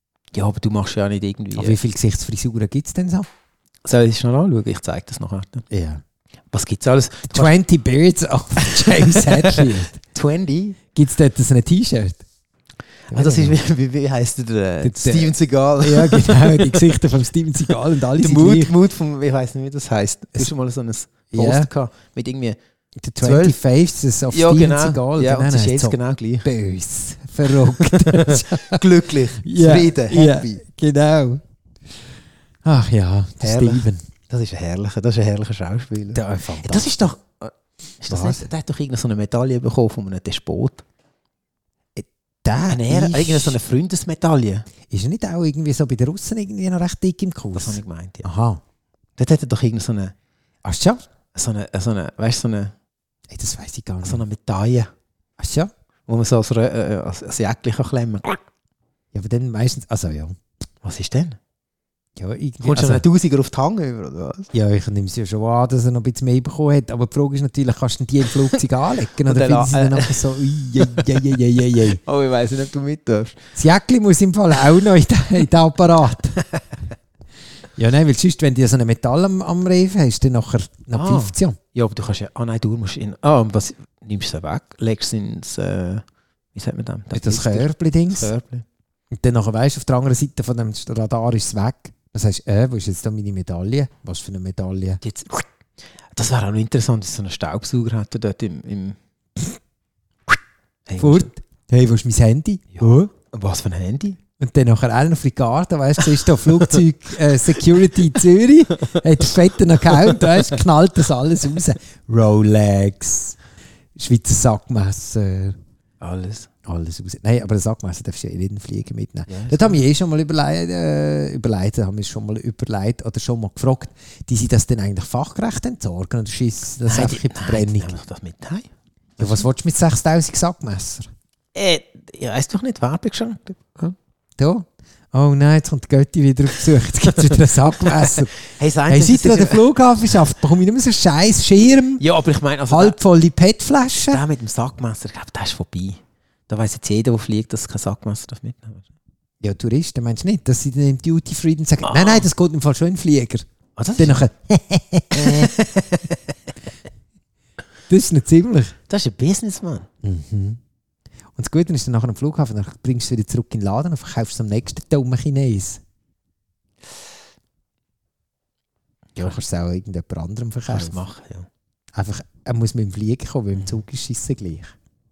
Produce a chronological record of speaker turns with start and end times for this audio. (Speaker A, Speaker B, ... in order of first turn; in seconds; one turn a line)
Speaker A: 0.3-1.8
Speaker B: 1.5-3.3
Speaker A: 3.8-5.7
Speaker B: 5.7-6.0
Speaker A: 6.5-7.5
Speaker B: 7.3-10.0
Speaker A: 8.6-10.8
Speaker B: 10.9-12.2
Speaker A: 13.1-16.9
Speaker B: 13.1-13.6
Speaker B: 14.8-18.7
Speaker A: 18.2-22.6
Speaker B: 21.3-21.7
Speaker B: 23.0-28.8
Speaker A: 23.2-23.6
Speaker A: 24.3-26.5
Speaker A: 27.7-30.6
Speaker B: 29.4-31.4
Speaker B: 32.6-34.0
Speaker A: 33.4-40.8
Speaker B: 36.1-37.1
Speaker B: 38.1-38.5
Speaker B: 42.0-43.6
Speaker A: 42.7-44.6
Speaker B: 44.9-48.6
Speaker A: 47.5-48.3
Speaker A: 49.2-50.1
Speaker B: 50.6-51.0
Speaker A: 51.3-52.7
Speaker B: 53.3-54.2
Speaker A: 54.0-54.9
Speaker B: 55.4-55.7
Speaker A: 56.1-58.4
Speaker B: 59.1-60.4
Speaker A: 60.8-61.4
Speaker B: 62.2-63.0
Speaker A: 62.6-64.5
Speaker B: 64.5-72.0
Speaker A: 69.2-71.3
Speaker A: 71.8-73.4
Speaker B: 73.5-76.4
Speaker B: 77.8-81.6
Speaker A: 80.9-86.0
Speaker A: 86.5-88.6
Speaker B: 87.1-88.3
Speaker B: 89.1-95.0
Speaker A: 95.0-95.4
Speaker A: 96.1-99.0
Speaker A: 100.9-101.3
Speaker B: 101.0-103.1
Speaker A: 102.8-104.2
Speaker B: 104.4-113.3
Speaker B: 114.0-115.6
Speaker A: 116.0-116.5
Speaker B: 116.7-128.0
Speaker A: 119.3-119.8
Speaker A: 126.9-129.4
Speaker B: 129.2-131.1
Speaker A: 131.5-133.9
Speaker B: 134.4-138.3
Speaker A: 137.9-139.6
Speaker B: 138.9-142.0
Speaker A: 142.0-143.0
Speaker B: 142.7-144.2
Speaker A: 144.1-148.8
Speaker B: 149.4-153.4
Speaker A: 151.8-152.2
Speaker A: 153.8-154.2
Speaker B: 154.0-155.5
Speaker A: 155.1-156.1
Speaker B: 157.9-158.7
Speaker A: 158.9-159.9
Speaker B: 160.0-160.6
Speaker B: 161.3-165.8
Speaker B: 169.2-171.0
Speaker A: 170.6-171.5
Speaker B: 171.9-174.7